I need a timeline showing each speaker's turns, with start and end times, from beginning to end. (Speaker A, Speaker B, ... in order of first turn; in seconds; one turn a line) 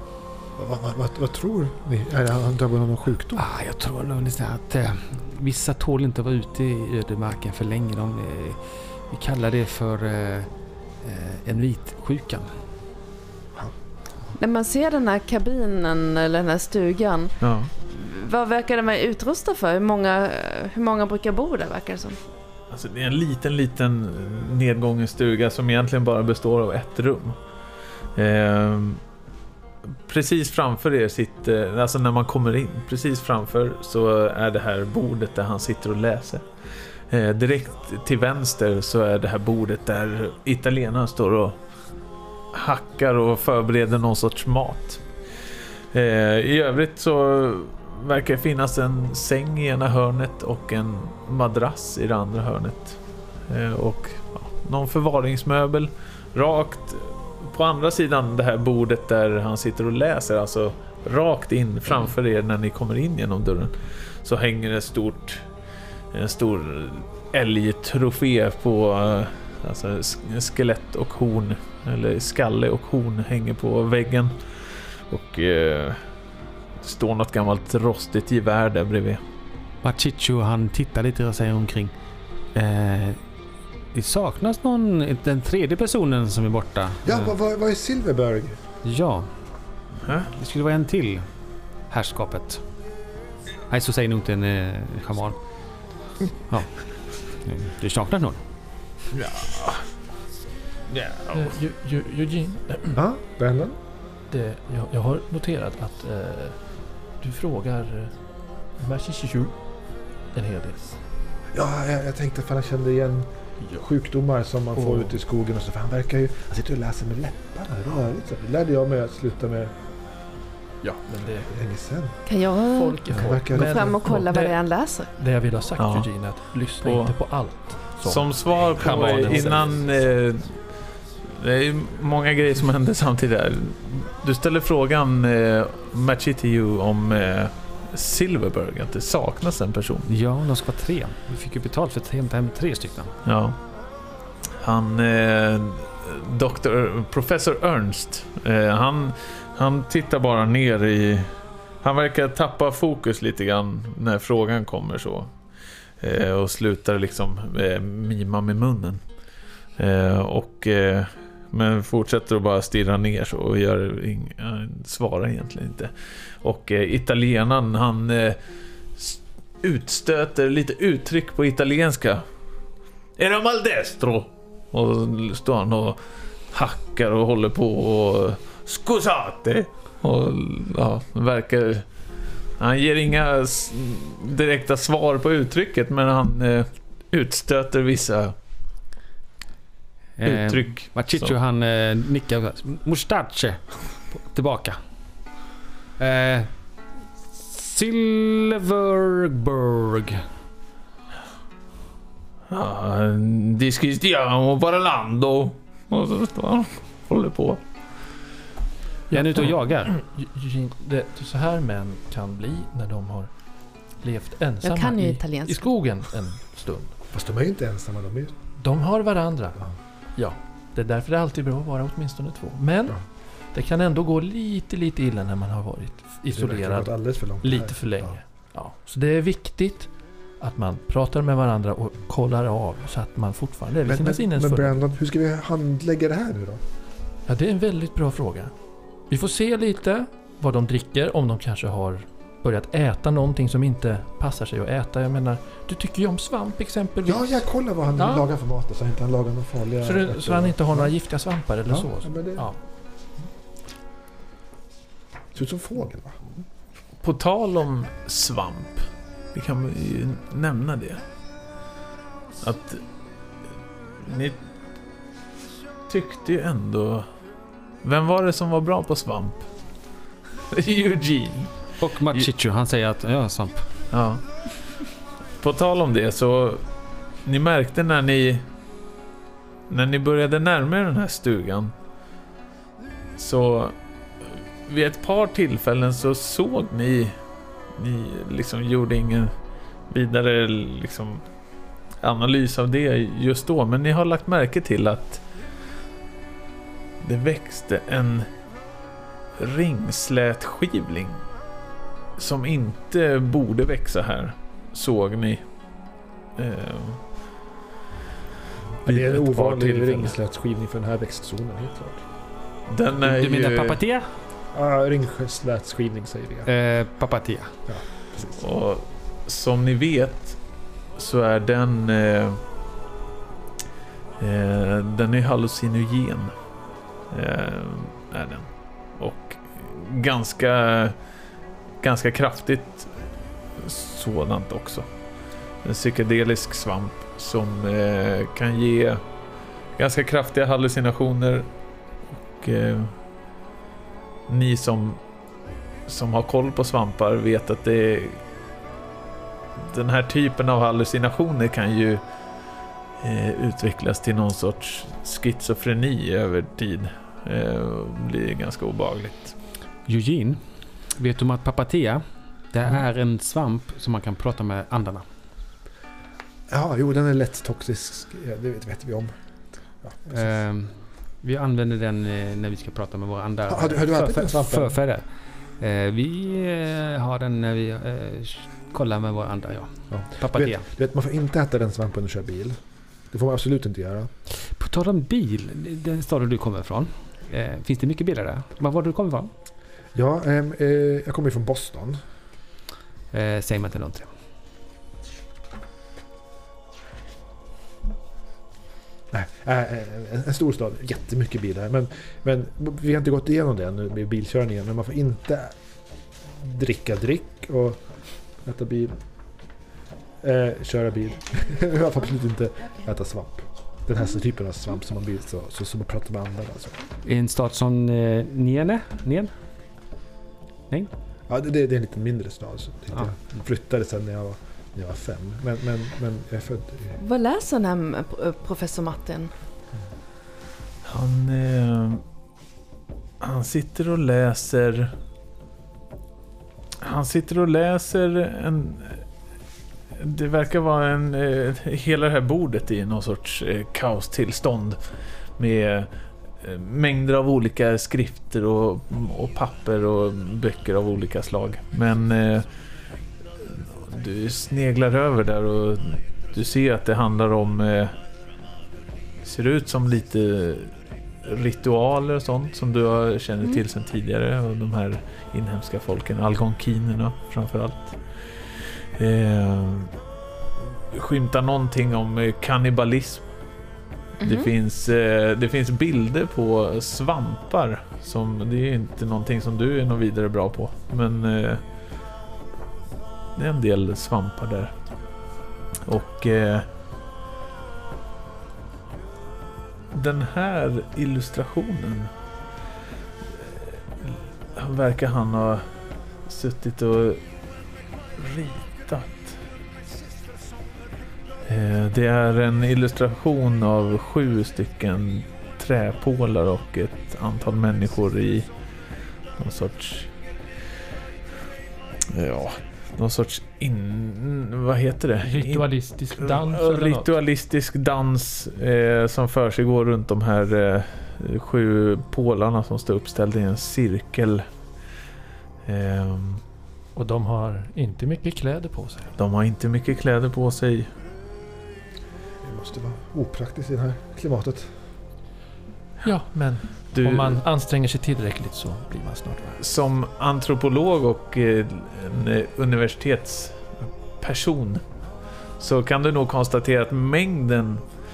Speaker A: 0.6-3.4
Speaker B: 3.4-12.6
Speaker C: 14.4-22.2
Speaker D: 17.4-17.7
Speaker D: 22.7-27.4
Speaker D: 28.1-29.0
Speaker D: 29.9-36.4
Speaker D: 37.1-41.6
Speaker D: 42.5-45.0
Speaker D: 45.9-65.4
Speaker D: 66.1-76.1
Speaker D: 76.8-79.2
Speaker B: 79.8-81.9
Speaker B: 82.5-83.2
Speaker B: 83.9-87.3
Speaker A: 87.0-88.6
Speaker B: 88.8-89.3
Speaker D: 90.0-90.3
Speaker B: 90.3-91.3
Speaker B: 91.9-92.6
Speaker B: 93.7-95.4
Speaker B: 96.4-98.4
Speaker D: 99.1-99.9
Speaker D: 100.9-101.6
Speaker E: 101.3-103.0
Speaker A: 102.9-103.8
Speaker E: 104.3-110.9
Speaker A: 111.5-119.7
Speaker E: 114.8-115.1
Speaker E: 120.8-121.5
Speaker A: 121.5-122.2
Speaker C: 122.2-125.1
Speaker E: 122.7-129.8
Speaker A: 123.2-124.0
Speaker D: 125.8-127.2
Speaker D: 127.9-140.1
Speaker B: 140.1-143.1
Speaker D: 143.2-143.6
Speaker D: 144.6-151.3
Speaker D: 151.8-155.3
Speaker D: 156.0-159.0
Speaker D: 159.8-168.4
Speaker D: 168.9-172.2
Speaker D: 173.2-176.0
Speaker D: 176.5-181.8
Speaker D: 182.6-188.3
Speaker B: 190.2-194.8
Speaker D: 190.2-191.3
Speaker B: 196.0-196.6
Speaker B: 197.3-200.2
Speaker D: 202.5-207.6
Speaker E: 209.1-216.9
Speaker B: 209.1-209.9
Speaker C: 214.6-215.6
Speaker A: 217.1-218.3
Speaker E: 218.6-234.8
Speaker A: 226.3-228.2
Speaker A: 233.8-236.6
Speaker E: 237.2-247.4
Speaker A: 247.0-250.9
Speaker E: 248.0-248.2
Speaker E: 249.8-252.6
Speaker A: 251.7-252.5
Speaker A: 255.3-256.2
Speaker D: 257.0-261.0
Speaker D: 262.4-262.8
Speaker D: 264.0-264.4
Speaker D: 265.9-267.1
Speaker D: 267.8-269.5
Speaker D: 270.5-272.3
Speaker B: 271.8-273.7
Speaker D: 273.9-274.7
Speaker D: 275.4-276.6
Speaker D: 277.2-278.4
Speaker D: 279.7-281.7
Speaker D: 283.2-287.1
Speaker D: 287.8-289.3
Speaker D: 289.9-291.2
Speaker D: 292.0-295.2
Speaker D: 297.0-298.3
Speaker D: 299.4-301.2
Speaker D: 302.2-305.4
Speaker D: 306.4-307.0
Speaker A: 308.8-312.0
Speaker D: 308.8-310.1
Speaker D: 312.7-313.8
Speaker B: 313.0-314.1
Speaker A: 314.5-316.5
Speaker B: 316.5-317.6
Speaker A: 317.7-318.4
Speaker D: 318.4-320.4
Speaker D: 320.9-322.4
Speaker D: 324.2-326.3
Speaker D: 327.1-330.9
Speaker D: 331.8-332.9
Speaker D: 333.6-334.9
Speaker D: 335.6-339.0
Speaker D: 339.8-341.5
Speaker D: 342.1-342.9
Speaker D: 344.3-345.0
Speaker D: 345.9-348.2
Speaker D: 349.6-352.0
Speaker D: 353.0-359.3
Speaker B: 359.9-365.1
Speaker A: 366.5-370.3
Speaker B: 370.1-380.6
Speaker A: 373.5-374.8
Speaker A: 379.9-384.1
Speaker B: 384.3-389.3
Speaker A: 389.9-392.0
Speaker B: 393.1-394.1
Speaker A: 399.1-405.6
Speaker A: 406.2-409.0
Speaker A: 410.2-416.8
Speaker B: 417.0-419.3
Speaker A: 421.3-427.0
Speaker C: 427.0-429.3
Speaker D: 430.8-432.0
Speaker D: 433.2-434.9
Speaker D: 436.8-439.1
Speaker D: 440.0-444.8
Speaker D: 445.4-445.9
Speaker D: 446.4-452.5
Speaker D: 453.4-457.9
Speaker D: 459.2-469.9
Speaker D: 470.6-473.2
Speaker D: 474.2-481.6
Speaker C: 474.2-474.5
Speaker D: 483.4-484.7
Speaker D: 485.8-486.6
Speaker D: 489.9-492.1
Speaker D: 493.3-495.6
Speaker D: 496.2-497.2
Speaker D: 498.2-499.4
Speaker D: 501.4-508.5
Speaker D: 509.4-510.1
Speaker D: 512.1-515.6
Speaker E: 515.2-517.1
Speaker D: 516.2-524.5
Speaker D: 525.6-526.4
Speaker E: 526.9-529.1
Speaker D: 529.2-530.9
Speaker A: 532.4-534.7
Speaker E: 536.0-539.6
Speaker D: 536.9-537.4
Speaker D: 539.6-544.8
Speaker D: 545.6-547.8